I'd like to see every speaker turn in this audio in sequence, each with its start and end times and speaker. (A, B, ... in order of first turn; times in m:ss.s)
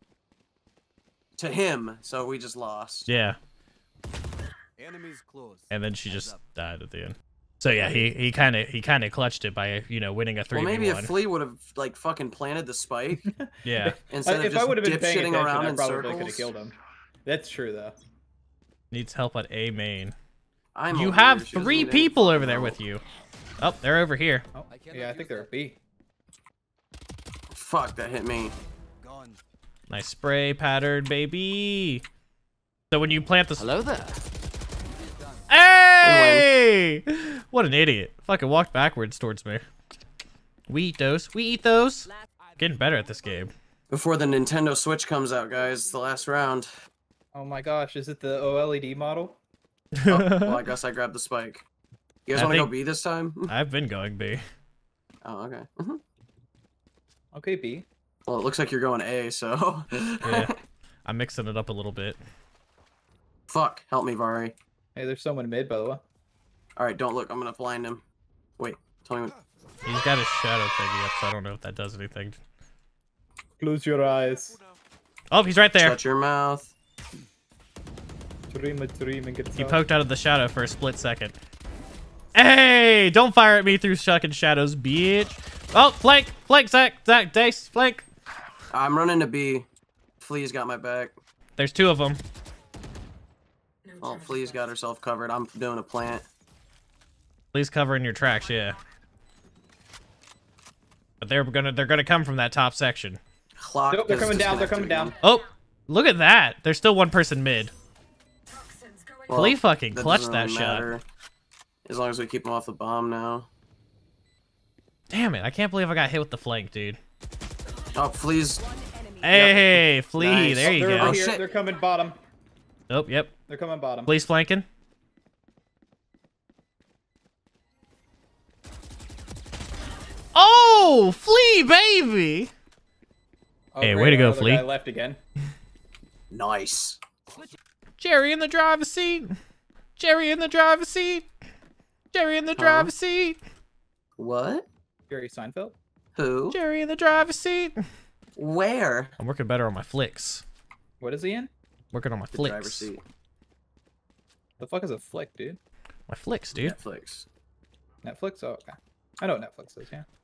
0:01.4-0:03.1 A
0:03.1-0:03.4 B
0:04.8-0:06.4 C
0:05.7-0:11.1 B
0:10.5-0:13.3 A
0:13.2-0:18.0 D
0:13.6-0:14.0 B
0:14.1-0:16.5 A
0:18.9-0:20.2 B
0:20.8-0:22.8 A
0:20.9-0:23.0 B
0:23.6-0:24.5 B
0:24.5-0:25.8 D
0:24.7-0:25.6 C
0:27.5-0:28.6 A
0:29.0-0:29.4 C
0:29.9-0:32.0 B
0:32.9-0:34.0 B
0:33.8-0:34.2 C
0:34.8-0:35.5 C
0:35.5-0:39.6 B
0:36.0-0:36.5 A
0:40.7-0:43.5 B
0:42.4-0:43.4 C
0:43.9-0:46.7 A
0:45.6-0:46.2 C
0:47.3-0:49.4 D
0:50.0-0:50.6 B
0:50.1-0:51.6 A
0:52.3-0:53.5 A
0:52.4-0:52.8 B
0:53.5-0:54.4 B
0:55.2-0:56.0 A
0:57.3-0:57.9 D
0:58.3-1:00.6 A
1:00.2-1:00.5 B
1:01.0-1:02.2 B
1:03.5-1:04.6 A
1:05.0-1:06.0 D
1:06.8-1:08.0 A
1:08.6-1:09.3 A
1:09.8-1:12.4 B
1:13.6-1:14.6 D
1:15.3-1:16.0 B
1:15.8-1:16.7 A
1:18.5-1:19.8 D
1:19.6-1:21.4 B
1:22.4-1:28.1 B
1:28.7-1:29.7 A
1:30.2-1:31.2 A
1:31.6-1:32.2 B
1:33.9-1:34.6 E
1:34.0-1:36.3 A
1:37.5-1:38.8 B
1:41.2-1:43.2 B
1:43.6-1:45.2 A
1:43.9-1:45.2 D
1:45.2-1:47.7 B
1:48.5-1:49.3 E
1:49.3-1:51.0 A
1:49.3-1:50.9 B
1:51.9-1:53.5 A
1:55.1-1:57.0 B
1:58.0-1:58.6 A
1:58.6-1:59.6 E
1:59.2-2:01.2 B
1:59.3-2:01.5 A
2:00.5-2:02.2 D
2:02.9-2:03.3 B
2:03.5-2:04.2 D
2:04.1-2:04.6 B
2:10.4-2:12.5 B
2:13.7-2:15.2 D
2:13.8-2:14.7 B
2:16.3-2:17.0 A
2:18.0-2:19.4 B
2:20.0-2:21.3 B
2:22.1-2:23.4 B
2:22.6-2:22.9 A
2:24.2-2:24.7 A
2:25.1-2:25.8 D
2:26.2-2:26.6 A
2:26.5-2:27.8 B
2:28.4-2:29.2 A
2:29.2-2:30.4 B
2:31.0-2:31.5 D
2:31.9-2:32.9 B
2:32.3-2:33.0 A
2:34.6-2:35.6 D
2:36.1-2:36.8 B
2:36.6-2:37.3 A
2:38.0-2:40.1 D